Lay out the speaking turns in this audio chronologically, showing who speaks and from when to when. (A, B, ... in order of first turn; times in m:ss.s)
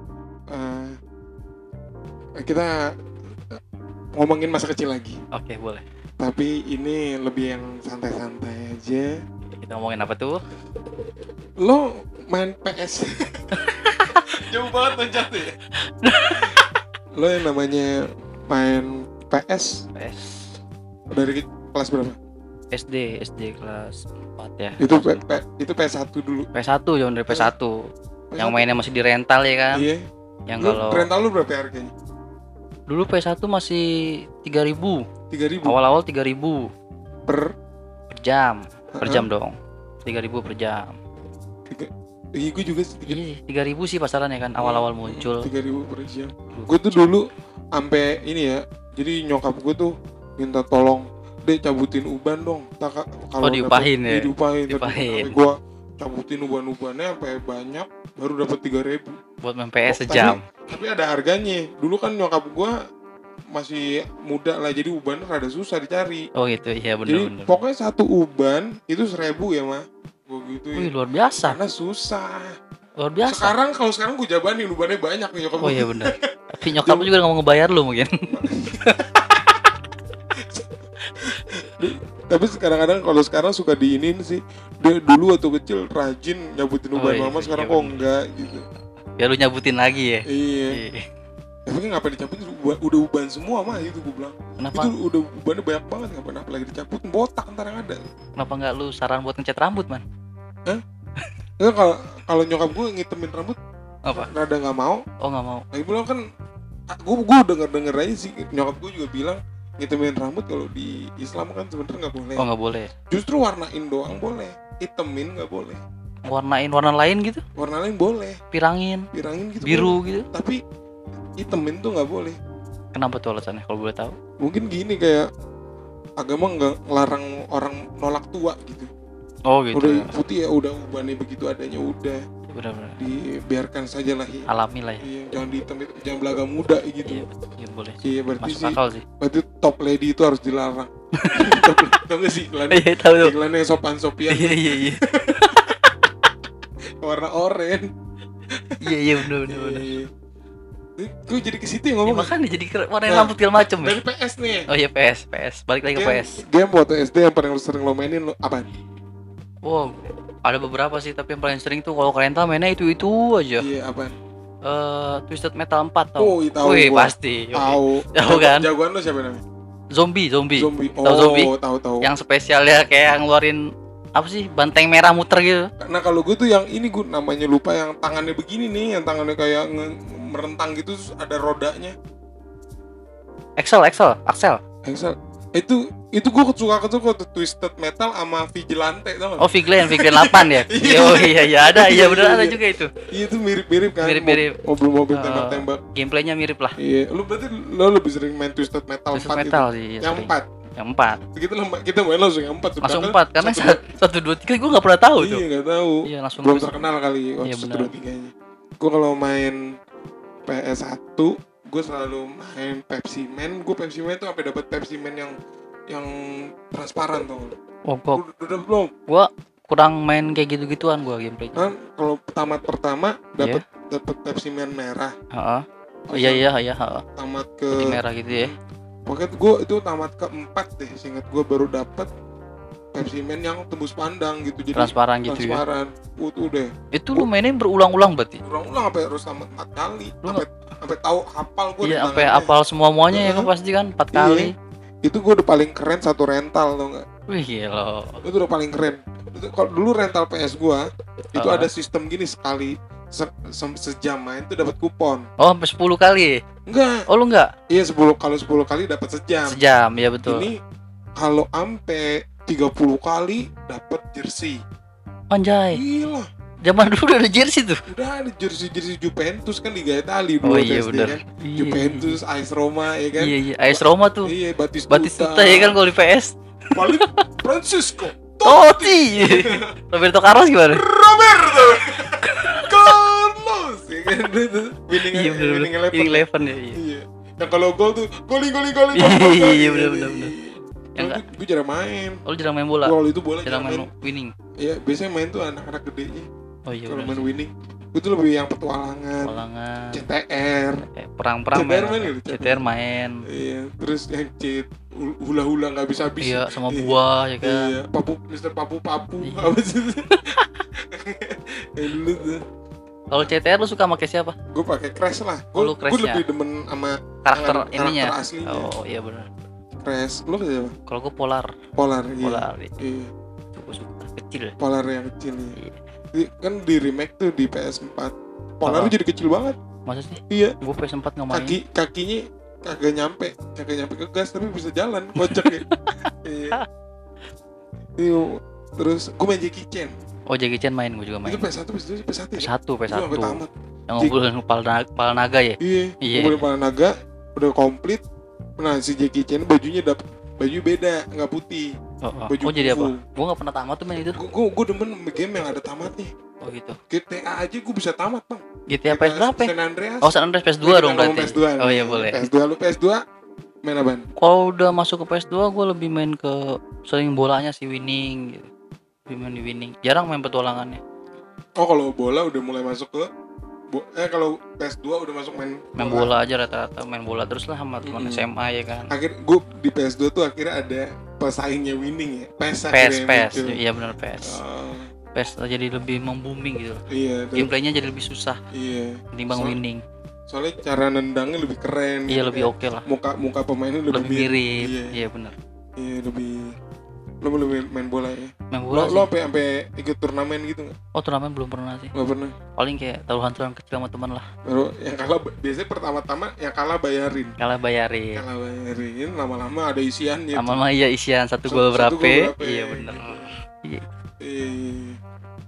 0:00.5-0:01.0 A
0:02.4-0:02.8 A
0:04.2-0:05.2 A
0:05.3-0:05.8 B
0:06.2-0:09.2 A
0:09.6-0:10.4 B
0:11.6-0:15.5 A
0:13.6-0:13.8 B
0:16.0-0:16.7 B
0:16.3-0:16.6 A
0:17.2-0:19.9 A
0:20.0-0:20.5 B
0:21.1-0:22.2 A
0:22.7-0:25.3 B
0:24.8-0:26.5 A
0:26.5-0:27.8 B
0:28.3-0:28.7 A
0:28.4-0:29.9 B
0:29.7-0:30.0 A
0:30.5-0:31.1 B
0:30.6-0:31.9 A
0:32.9-0:35.0 B
0:35.3-0:35.8 A
0:35.6-0:36.7 B
0:37.3-0:37.5 A
0:38.1-0:41.0 B
0:39.0-0:39.3 A
0:41.7-0:43.2 A
0:43.1-0:45.5 B
0:44.6-0:47.2 A
0:46.6-0:46.9 B
0:47.8-0:59.2 A
0:53.4-0:55.4 B
0:59.4-1:00.4 B
0:59.9-1:02.7 A
1:03.5-1:06.3 A
1:06.4-1:07.6 B
1:07.1-1:10.9 A
1:10.8-1:11.6 B
1:11.4-1:12.5 A
1:13.0-1:13.6 B
1:13.2-1:16.3 A
1:15.6-1:18.1 B
1:16.8-1:17.1 A
1:18.3-1:19.4 A
1:21.2-1:28.6 A
1:27.0-1:28.0 B
1:29.2-1:31.0 B
1:30.3-1:30.8 A
1:31.7-1:38.0 A
1:34.6-1:34.9 B
1:38.4-1:40.0 B
1:41.6-1:43.6 A
1:44.1-1:45.0 A
1:45.2-1:45.6 B
1:45.7-1:46.2 A
1:46.9-1:52.4 A
1:52.4-1:52.9 B
1:53.1-1:55.8 A
1:56.3-1:57.4 B
1:57.6-1:58.4 A
1:58.5-1:59.1 B
1:59.1-2:00.6 A
1:59.6-2:00.3 B
2:01.4-2:02.4 A
2:02.9-2:04.2 B
2:04.4-2:05.3 A
2:06.2-2:08.9 A
2:09.5-2:10.1 B
2:09.7-2:12.2 A
2:12.5-2:13.0 B
2:13.0-2:14.5 A
2:14.5-2:15.0 B
2:15.0-2:17.3 A
2:17.0-2:19.0 B
2:18.0-2:25.8 A
2:21.2-2:21.5 B
2:22.7-2:23.4 B
2:24.3-2:25.8 B
2:27.0-2:27.9 A
2:28.6-2:30.1 A
2:28.8-2:29.9 B
2:31.0-2:32.3 A
2:32.1-2:34.0 B
2:33.1-2:34.7 A
2:34.7-2:36.4 B
2:35.9-2:38.7 A
2:39.7-2:39.9 B
2:40.4-2:43.7 B
2:43.6-2:44.2 A
2:44.6-2:48.7 B
2:46.2-2:49.4 A
2:49.9-2:51.5 B
2:50.6-2:52.1 A
2:52.0-2:53.6 B
2:54.2-2:55.7 B
2:55.8-3:02.0 A
3:03.6-3:04.6 B
3:04.9-3:12.6 A
3:09.4-3:12.9 B
3:13.1-3:15.8 A
3:14.0-3:14.6 B
3:15.1-3:16.8 B
3:16.8-3:20.5 A
3:19.1-3:21.2 B
3:21.2-3:23.9 A
3:22.8-3:25.4 B
3:25.2-3:29.6 A
3:26.1-3:26.9 B
3:27.4-3:27.9 B
3:30.5-3:35.3 A
3:36.7-3:37.5 A
3:37.9-3:38.2 B
3:38.1-3:38.9 A
3:39.1-3:41.7 B
3:41.6-3:45.1 A
3:45.4-3:47.0 B
3:46.1-3:46.5 A
3:47.2-3:48.6 A
3:47.8-3:48.5 B
3:49.1-3:52.1 A
3:53.0-3:57.3 A
3:54.8-3:55.6 B
3:57.0-3:58.4 B
3:58.4-4:02.5 A
4:01.8-4:04.5 B
4:03.1-4:03.5 A
4:04.1-4:04.5 A
4:05.0-4:07.0 A
4:07.3-4:08.2 B
4:08.2-4:10.8 A
4:11.4-4:15.2 A
4:11.4-4:11.7 B
4:15.4-4:16.4 B
4:16.7-4:17.0 A
4:17.1-4:17.5 B
4:17.7-4:19.6 A
4:19.5-4:20.5 B
4:20.2-4:20.5 A
4:21.2-4:24.6 A
4:25.3-4:25.8 B
4:25.7-4:26.3 A
4:26.6-4:27.8 B
4:27.9-4:35.8 A
4:30.4-4:32.2 B
4:33.2-4:34.3 B
4:34.9-4:37.1 B
4:36.7-4:39.8 A
4:38.4-4:40.8 B
4:40.7-4:52.2 A
4:42.2-4:42.9 B
4:45.0-4:46.8 B
4:49.0-4:50.3 B
4:51.0-4:51.2 B
4:52.3-4:54.3 B
4:52.8-4:53.9 A
4:54.6-4:56.3 A
4:56.7-4:57.3 B
4:56.9-4:59.4 A
4:59.2-5:00.0 B
4:59.9-5:00.9 A
5:00.9-5:03.2 B
5:01.5-5:02.6 A
5:03.3-5:10.2 A
5:06.2-5:07.8 B
5:09.2-5:09.6 B
5:10.9-5:12.4 A
5:13.1-5:14.4 B
5:14.5-5:18.7 A
5:15.6-5:16.2 B
5:17.2-5:19.3 B
5:19.8-5:20.7 A
5:20.9-5:21.5 B
5:21.8-5:23.1 A
5:22.2-5:22.7 B
5:23.6-5:24.5 B
5:24.6-5:25.6 A
5:26.2-5:29.6 A
5:28.6-5:29.0 B
5:29.9-5:31.6 B
5:31.3-5:35.6 A
5:35.2-5:35.8 B
5:36.2-5:36.6 A
5:38.0-5:39.9 A
5:40.3-5:41.4 B
5:41.2-5:44.1 A
5:42.4-5:46.5 B
5:45.6-5:48.0 A
5:48.6-5:51.7 A
5:52.0-5:54.2 B
5:52.3-5:53.0 A
5:54.1-5:56.1 A
5:56.4-5:56.8 B
5:56.9-6:03.0 A
5:58.7-6:02.3 B
6:03.6-6:04.1 A
6:04.2-6:08.5 B
6:09.1-6:10.8 B
6:11.6-6:13.1 A
6:13.7-6:16.2 A
6:15.8-6:18.9 B
6:17.8-6:18.2 A
6:18.9-6:23.6 A
6:22.7-6:24.4 B
6:24.2-6:24.9 A
6:25.2-6:26.8 B
6:26.9-6:27.5 A
6:27.4-6:28.4 B
6:28.5-6:29.6 A
6:29.2-6:29.8 B
6:30.3-6:35.0 A
6:32.1-6:32.9 B
6:33.9-6:35.4 B
6:35.8-6:36.6 A
6:37.2-6:40.7 A
6:38.5-6:39.1 B
6:41.0-6:41.9 B
6:42.0-6:42.3 A
6:42.6-6:44.3 B
6:44.5-6:47.4 A
6:47.4-6:48.2 B
6:48.2-6:50.6 A
6:50.4-6:53.8 B
6:51.5-6:53.3 A
6:54.2-6:55.0 A